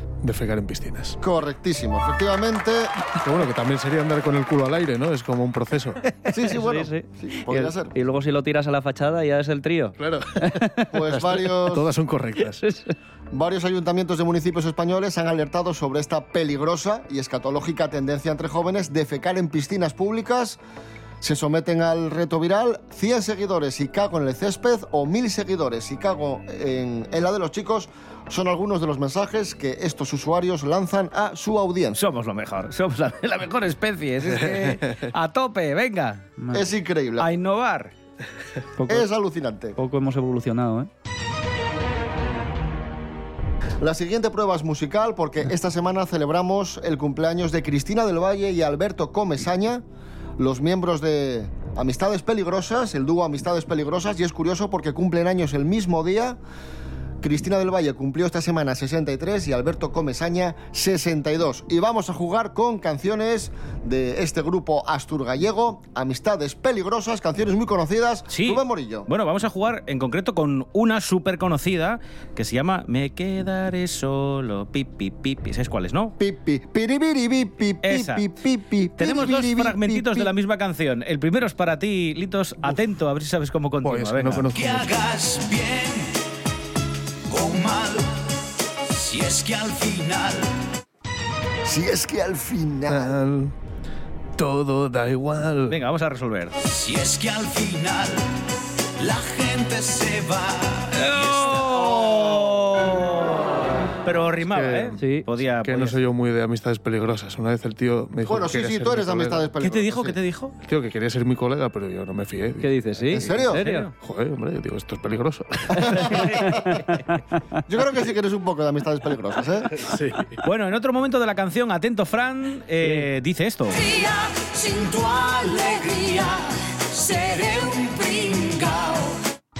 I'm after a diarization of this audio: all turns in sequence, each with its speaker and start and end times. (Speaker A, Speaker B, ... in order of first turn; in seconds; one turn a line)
Speaker A: 0.2-1.2
Speaker B: 1.2-2.9
Speaker A: 3.2-6.0
Speaker B: 6.2-7.9
Speaker C: 6.3-10.9
Speaker A: 10.0-10.6
Speaker B: 10.9-11.9
Speaker A: 11.1-12.6
Speaker C: 12.6-12.9
Speaker B: 13.3-20.6
Speaker B: 21.2-32.0
Speaker D: 32.0-36.2
Speaker C: 36.4-36.7
Speaker B: 36.5-37.3
Speaker D: 37.2-37.9
Speaker C: 38.8-39.1
Speaker B: 38.9-39.8
Speaker C: 39.8-40.9
Speaker B: 43.8-49.8
Speaker B: 50.4-56.4
Speaker B: 57.2-69.1
Speaker D: 68.3-76.1
Speaker B: 76.2-80.3
Speaker D: 77.8-78.2
Speaker D: 79.0-84.5
Speaker A: 83.8-84.9
Speaker E: 84.5-86.2
Speaker E: 87.3-88.2
Speaker E: 88.9-90.5
Speaker B: 91.6-93.2
Speaker A: 92.9-93.5
Speaker A: 94.4-95.8
Speaker D: 95.7-96.5
Speaker E: 96.6-98.3
Speaker E: 99.0-101.7
Speaker D: 100.9-106.0
Speaker B: 101.8-102.4
Speaker A: 104.4-109.5
Speaker C: 105.0-105.2
Speaker B: 108.2-110.2
Speaker D: 109.6-110.5
Speaker A: 110.6-116.3
Speaker C: 112.6-113.9
Speaker B: 113.1-113.6
Speaker D: 113.6-113.9
Speaker C: 115.8-116.8
Speaker B: 115.8-116.5
Speaker B: 117.7-119.8
Speaker A: 119.7-120.4
Speaker D: 120.4-123.8
Speaker E: 123.9-129.0